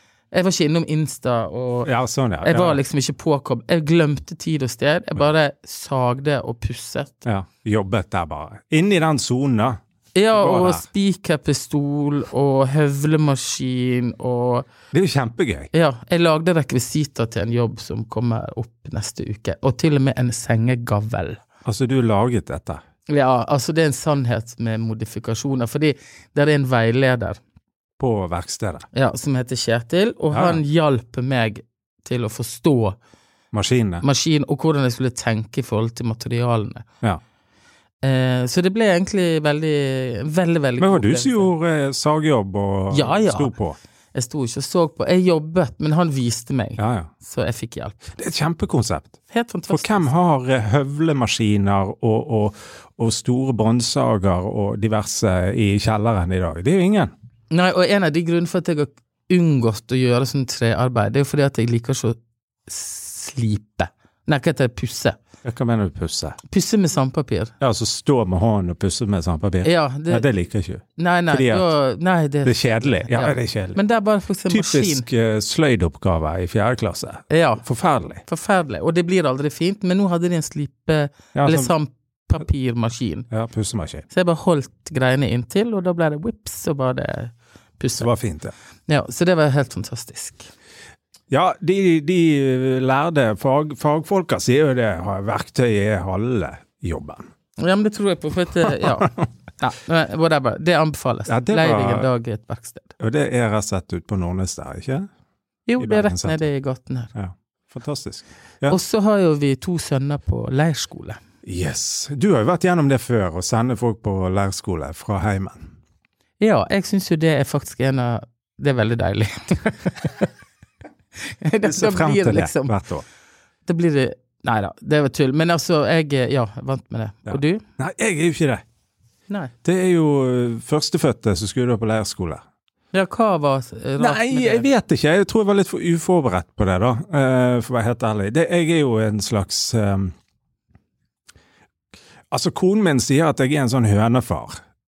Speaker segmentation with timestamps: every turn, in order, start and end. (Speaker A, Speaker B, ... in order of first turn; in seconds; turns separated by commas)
Speaker A: 0.3-1.9, Speaker B: 1.9-2.8, Speaker A: 2.4-7.2, Speaker B: 7.2-9.8, Speaker A: 10.2-14.7, Speaker B: 10.3-10.8, Speaker B: 14.9-15.7, Speaker A: 15.7-21.4, Speaker B: 21.6-22.8, Speaker A: 23.1-27.4, Speaker B: 28.0-28.9, Speaker A: 28.9-33.0, Speaker B: 30.3-30.6, Speaker B: 33.5-34.0, Speaker A: 34.0-36.9, Speaker A: 38.0-41.5, Speaker B: 40.8-43.8, Speaker A: 42.9-43.5, Speaker A: 44.1-48.1, Speaker B: 46.8-47.1, Speaker B: 48.1-49.2, Speaker A: 49.3-50.1, Speaker B: 49.7-57.1, Speaker A: 57.5-62.2, Speaker A: 62.7-65.2, Speaker B: 65.4-66.4, Speaker A: 66.5-67.5, Speaker B: 67.6-71.7, Speaker A: 69.6-70.3, Speaker A: 71.0-75.1, Speaker B: 72.4-73.8, Speaker B: 74.5-78.2, Speaker A: 77.3-77.6, Speaker A: 78.2-83.3, Speaker B: 81.3-81.7, Speaker B: 83.3-84.1, Speaker A: 84.1-88.1, Speaker B: 88.0-88.5, Speaker A: 88.9-90.5, Speaker B: 91.3-97.2, Speaker A: 97.6-102.9, Speaker B: 98.6-99.2, Speaker B: 101.3-102.1, Speaker B: 103.0-105.1, Speaker A: 105.7-107.1, Speaker B: 105.8-106.5, Speaker B: 107.2-108.8, Speaker A: 108.7-111.2, Speaker B: 111.4-115.7, Speaker A: 116.4-120.3, Speaker A: 121.2-122.8, Speaker B: 121.6-123.0, Speaker A: 123.7-127.6, Speaker B: 127.3-128.6, Speaker B: 129.6-132.4, Speaker A: 132.9-134.7, Speaker B: 134.0-140.1, Speaker B: 142.3-144.6